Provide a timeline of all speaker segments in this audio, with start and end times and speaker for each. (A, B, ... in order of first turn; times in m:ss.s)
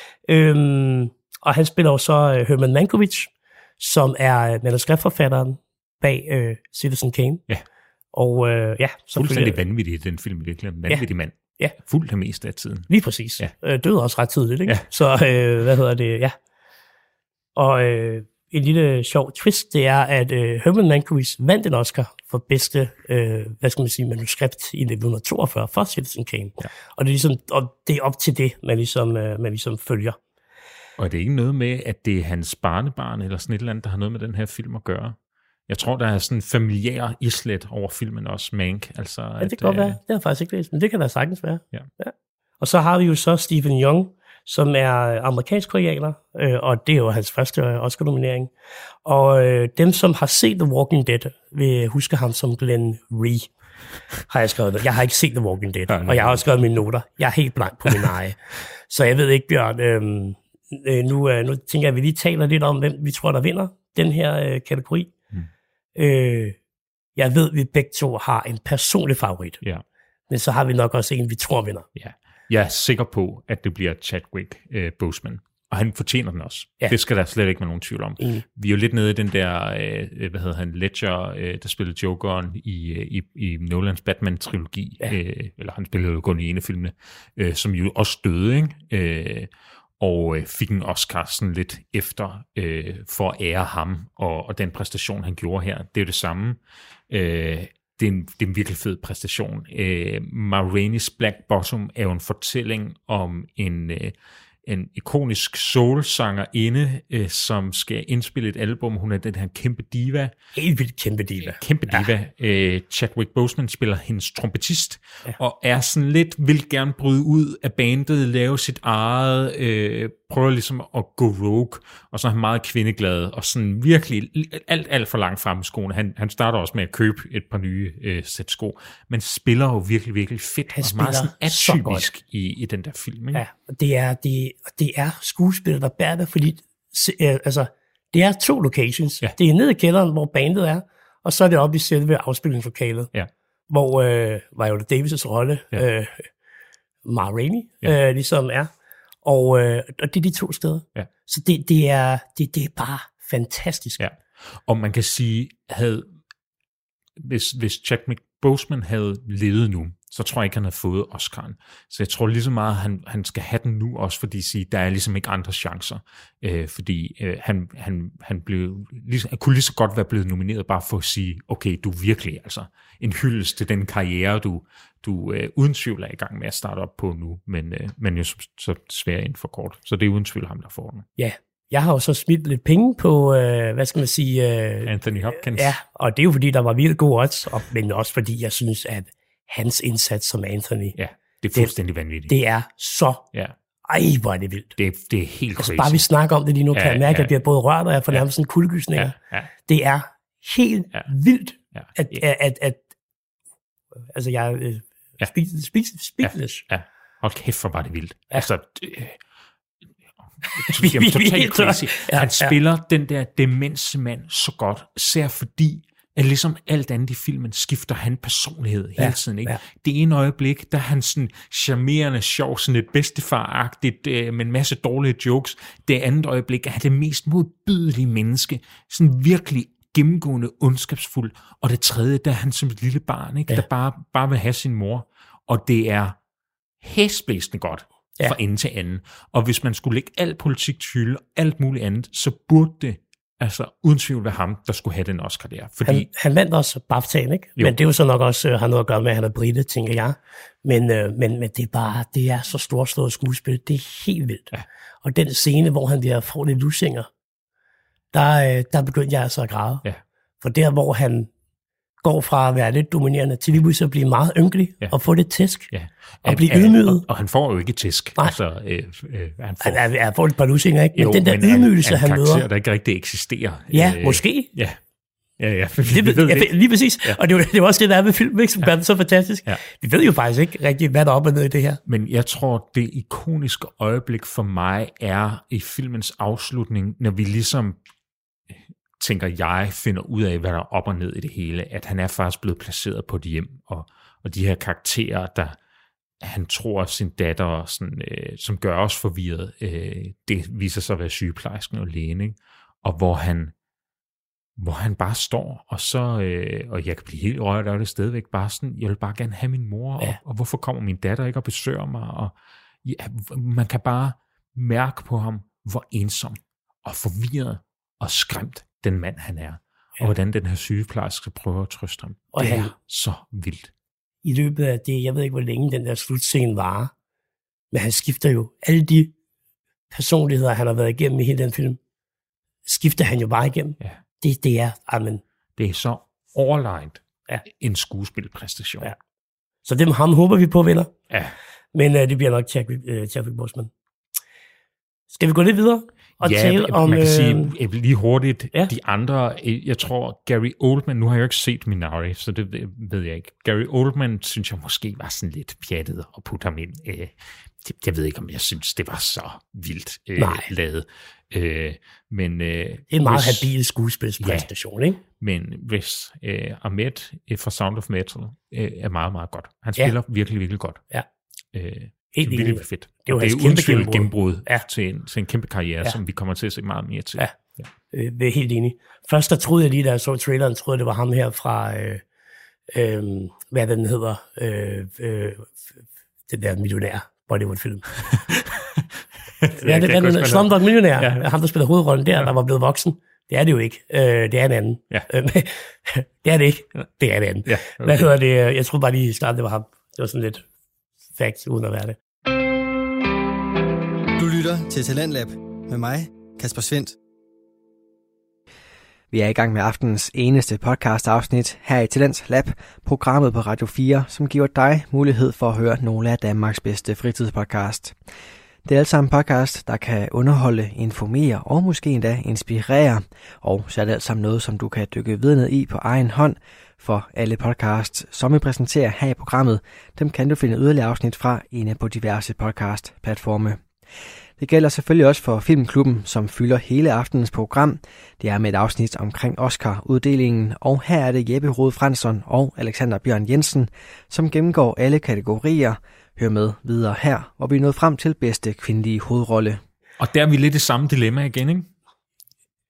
0:00.3-0:07.4 A
0:08.1-0:09.6 A
0:09.2-0:13.5 B
0:12.9-0:16.4 A
0:17.5-0:30.2 A
0:31.0-0:35.2 B
0:35.7-0:40.0 B
0:39.4-0:48.5 A
0:49.0-0:53.5 A
0:54.3-1:05.1 A
0:55.9-0:56.4 B
1:06.0-1:06.6 A
1:07.2-1:09.6 A
1:10.3-1:11.9 A
1:12.0-1:36.6 B
1:18.2-1:18.4 A
1:37.1-1:44.1 B
1:44.6-1:50.3 B
1:50.5-1:52.1 A
1:51.4-2:13.4 B
2:10.7-2:12.0 A
2:13.3-2:23.1 A
2:23.7-2:26.3 A
2:27.0-2:28.7 A
2:29.2-2:34.0 A
2:34.0-2:36.1 B
2:37.2-3:01.0 B
3:01.2-3:11.0 A
3:04.8-3:05.8 B
3:11.0-3:12.3 B
3:12.3-3:13.2 A
3:13.9-3:14.8 A
3:14.8-3:16.0 B
3:15.6-3:19.1 A
3:16.7-3:17.3 B
3:19.0-3:19.5 B
3:19.6-3:22.8 A
3:21.7-3:22.2 B
3:24.1-3:26.6 A
3:26.2-3:29.2 B
3:30.4-3:56.2 B
3:30.4-3:32.5 A
3:39.0-3:39.6 A
3:56.8-4:06.1 B
4:05.8-4:14.5 A
4:15.0-4:17.1 A
4:18.1-4:19.8 A
4:20.4-4:21.3 A
4:22.0-4:25.7 A
4:25.7-4:29.8 B
4:26.2-4:27.0 A
4:29.6-4:32.4 A
4:30.9-4:34.8 B
4:33.7-4:34.5 A
4:35.4-4:36.5 B
4:35.8-4:41.8 A
4:41.8-4:47.8 B
4:48.5-4:55.6 B
4:56.2-5:03.5 B
5:04.6-5:23.7 B
5:22.3-5:22.7 A
5:24.2-5:26.9 A
5:27.7-5:29.1 A
5:29.9-5:31.8 A
5:32.6-5:35.2 A
5:35.6-5:38.9 B
5:39.6-5:40.9 A
5:41.7-5:43.7 A
5:45.1-5:47.5 A
5:46.2-6:03.5 B
6:00.2-6:00.5 A
6:02.9-6:05.0 A
6:04.2-6:04.5 B
6:05.2-6:10.8 B
6:11.5-6:17.7 B
6:12.1-6:14.6 A
6:17.9-6:22.0 A
6:22.7-6:25.7 A
6:26.3-6:28.0 A
6:29.4-6:31.2 B
6:29.5-6:40.4 A
6:37.4-6:38.1 B
6:41.1-6:42.0 A
6:44.2-6:47.0 C
6:49.1-6:58.0 D
6:58.6-7:13.6 D
7:14.4-7:29.6 D
7:30.0-7:31.7 B